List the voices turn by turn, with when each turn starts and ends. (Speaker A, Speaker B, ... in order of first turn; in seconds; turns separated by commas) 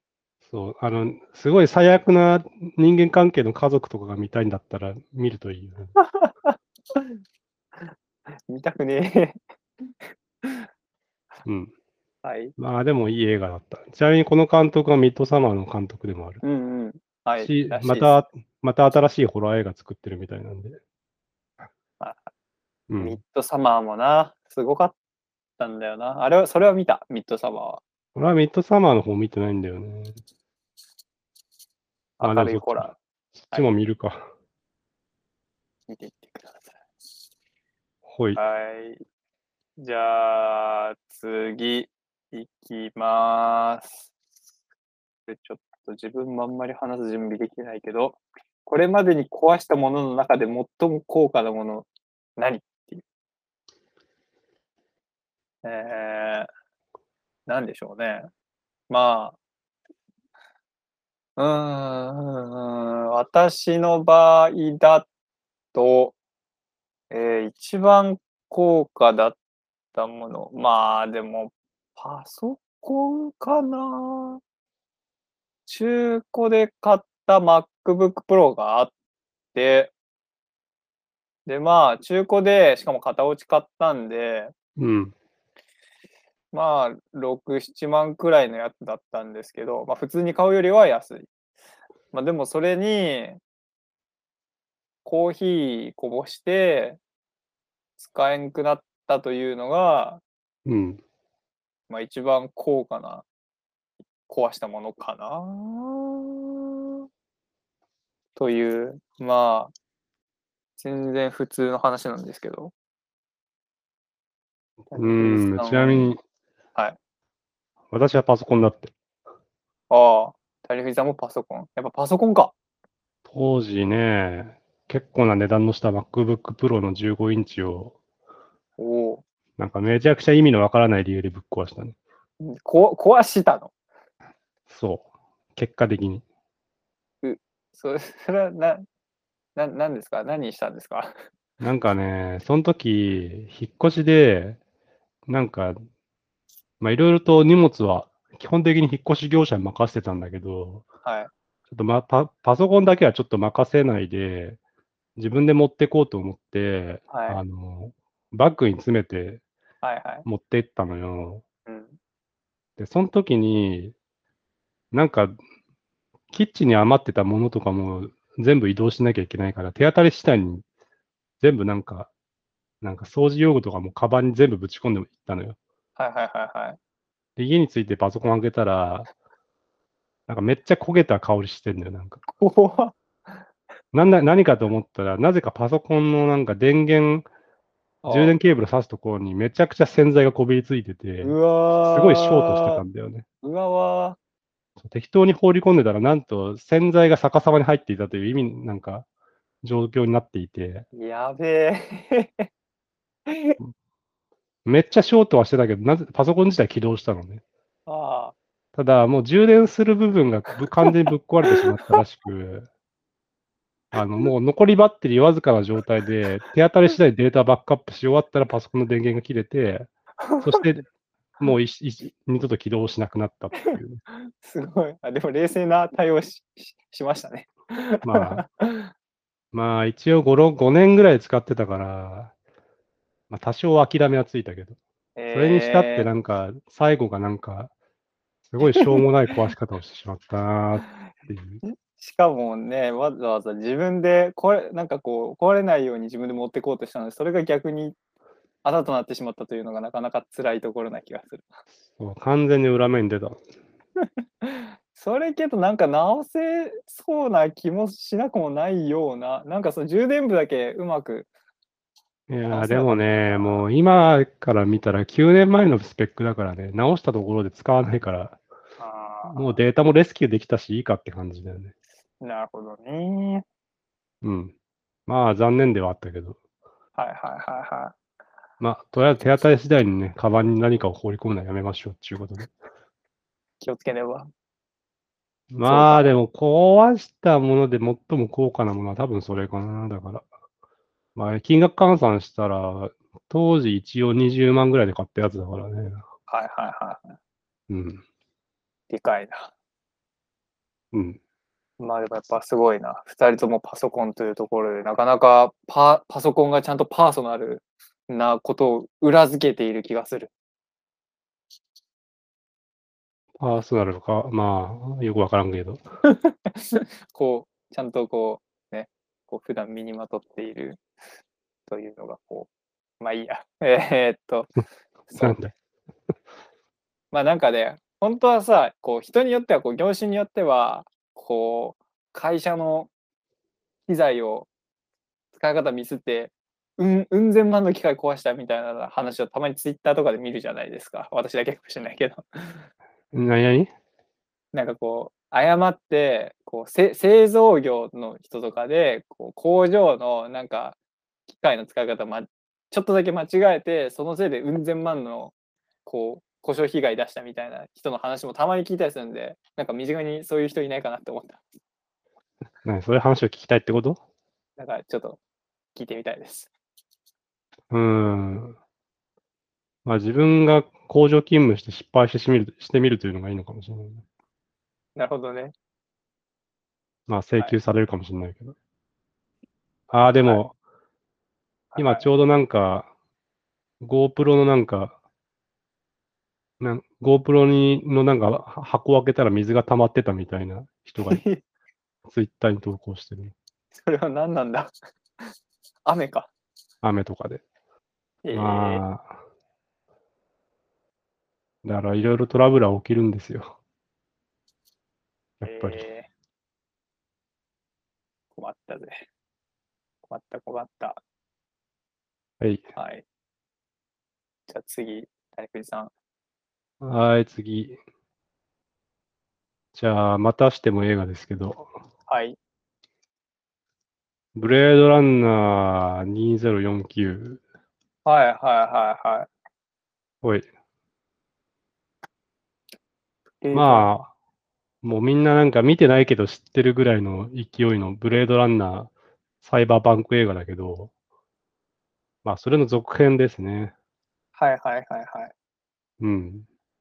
Speaker A: 0.5-5.9, Speaker B: 6.0-7.2, Speaker B: 8.5-10.7, Speaker A: 11.5-11.7, Speaker B: 12.2-12.6, Speaker A: 12.6-16.4, Speaker B: 16.4-18.2, Speaker A: 17.4-20.8, Speaker B: 22.0-22.3, Speaker A: 22.9-23.2, Speaker B: 23.0-25.0, Speaker B: 25.6-27.8, Speaker A: 28.1-30.2, Speaker B: 32.2-33.0, Speaker A: 32.2-34.3, Speaker B: 35.9-36.8, Speaker A: 38.1-38.4, Speaker B: 38.4-39.0, Speaker B: 39.8-44.1, Speaker B: 45.3-53.0, Speaker B: 55.6-56.5, Speaker B: 57.5-58.3, Speaker B: 58.9-59.4, Speaker B: 61.4-65.1, Speaker B: 65.7-66.2, Speaker B: 67.1-69.4, Speaker B: 69.9-74.4, Speaker B: 75.7-78.9, Speaker B: 79.5-79.9, Speaker B: 81.5-84.5, Speaker A: 84.8-85.1, Speaker B: 86.5-91.3, Speaker B: 92.1-93.4, Speaker B: 95.0-97.0, Speaker B: 98.0-100.2, Speaker A: 100.7-101.0, Speaker B: 101.9-103.3, Speaker B: 104.3-106.2, Speaker B: 108.4-109.7, Speaker B: 110.8-112.7, Speaker B: 114.9-116.2, Speaker A: 114.9-116.2, Speaker A: 117.9-118.9, Speaker B: 119.9-122.5, Speaker A: 123.3-128.0, Speaker B: 128.8-129.2, Speaker A: 129.6-132.0, Speaker B: 132.4-133.7, Speaker A: 134.7-136.2, Speaker B: 137.2-138.9, Speaker B: 139.6-141.1, Speaker A: 141.6-144.6, Speaker A: 145.3-145.8, Speaker A: 146.8-150.8, Speaker B: 151.1-151.3, Speaker A: 151.7-154.6, Speaker A: 155.2-159.4, Speaker B: 157.1-157.4, Speaker B: 159.8-160.3, Speaker A: 160.3-161.4, Speaker B: 161.7-162.0, Speaker A: 162.8-163.9, Speaker A: 164.9-165.4, Speaker A: 166.3-170.6, Speaker A: 171.4-172.1, Speaker A: 172.8-175.6, Speaker B: 176.0-176.8, Speaker A: 177.4-179.1, Speaker A: 180.3-182.2, Speaker B: 182.4-182.9, Speaker A: 183.9-187.3, Speaker B: 188.0-188.3, Speaker A: 188.1-193.2, Speaker B: 191.2-192.8, Speaker B: 193.4-194.2, Speaker A: 194.8-199.1, Speaker A: 199.6-200.9, Speaker B: 200.9-202.5, Speaker B: 203.3-203.6, Speaker A: 204.7-207.4, Speaker B: 207.9-208.3, Speaker A: 208.8-212.7, Speaker B: 211.5-212.0, Speaker A: 213.9-219.9, Speaker B: 220.2-220.7, Speaker A: 220.4-220.9, Speaker A: 221.4-224.0, Speaker B: 224.4-228.9, Speaker A: 228.0-228.4, Speaker A: 229.5-232.3, Speaker A: 233.3-234.8, Speaker B: 235.2-236.1, Speaker A: 235.3-237.7, Speaker A: 238.5-241.6, Speaker B: 238.7-239.0, Speaker B: 241.6-248.0, Speaker B: 248.6-251.6, Speaker A: 252.0-253.4, Speaker B: 254.4-261.3, Speaker A: 262.3-268.4, Speaker B: 262.5-263.7, Speaker B: 268.8-269.6, Speaker A: 269.3-271.7, Speaker B: 272.2-273.4, Speaker A: 274.2-274.5, Speaker A: 275.1-276.4, Speaker B: 277.0-278.0, Speaker A: 278.6-282.5, Speaker B: 283.6-284.3, Speaker A: 285.5-290.2, Speaker B: 285.6-286.2, Speaker A: 291.1-296.1, Speaker B: 296.3-297.2, Speaker A: 297.7-298.0, Speaker B: 298.9-299.5, Speaker A: 300.9-301.2, Speaker B: 301.8-310.3, Speaker A: 313.4-315.8, Speaker B: 316.0-320.8, Speaker B: 321.7-322.5, Speaker B: 323.0-324.5, Speaker B: 325.1-325.4, Speaker A: 325.2-325.5, Speaker B: 327.1-332.9, Speaker B: 333.9-334.5, Speaker B: 335.3-342.6, Speaker A: 343.1-343.7, Speaker B: 344.5-350.8, Speaker B: 351.3-355.3, Speaker B: 355.9-361.4, Speaker A: 362.6-364.0, Speaker B: 364.6-365.2, Speaker B: 365.8-366.5, Speaker A: 367.7-368.6, Speaker A: 369.9-374.0, Speaker B: 375.0-375.5, Speaker A: 377.1-378.6, Speaker A: 379.9-380.5, Speaker B: 381.7-382.1, Speaker A: 381.8-382.9, Speaker A: 383.8-385.0, Speaker A: 386.6-391.2, Speaker B: 391.1-391.4, Speaker A: 392.1-393.3, Speaker B: 393.8-394.7, Speaker B: 395.9-396.3, Speaker A: 396.8-397.4, Speaker B: 398.2-398.8, Speaker A: 398.3-399.1, Speaker A: 401.6-403.6, Speaker A: 405.4-405.9, Speaker B: 405.4-406.1, Speaker B: 408.4-409.1, Speaker B: 410.1-411.0, Speaker B: 412.8-413.1, Speaker B: 414.5-415.9, Speaker A: 416.8-417.8, Speaker A: 419.7-421.7, Speaker B: 422.1-422.4, Speaker A: 424.4-427.4, Speaker B: 428.1-429.3, Speaker A: 430.2-430.5, Speaker B: 433.4-433.9, Speaker A: 433.5-434.1, Speaker A: 434.8-438.9, Speaker A: 439.4-440.9, Speaker A: 442.2-443.7, Speaker B: 444.4-445.3, Speaker A: 446.0-446.5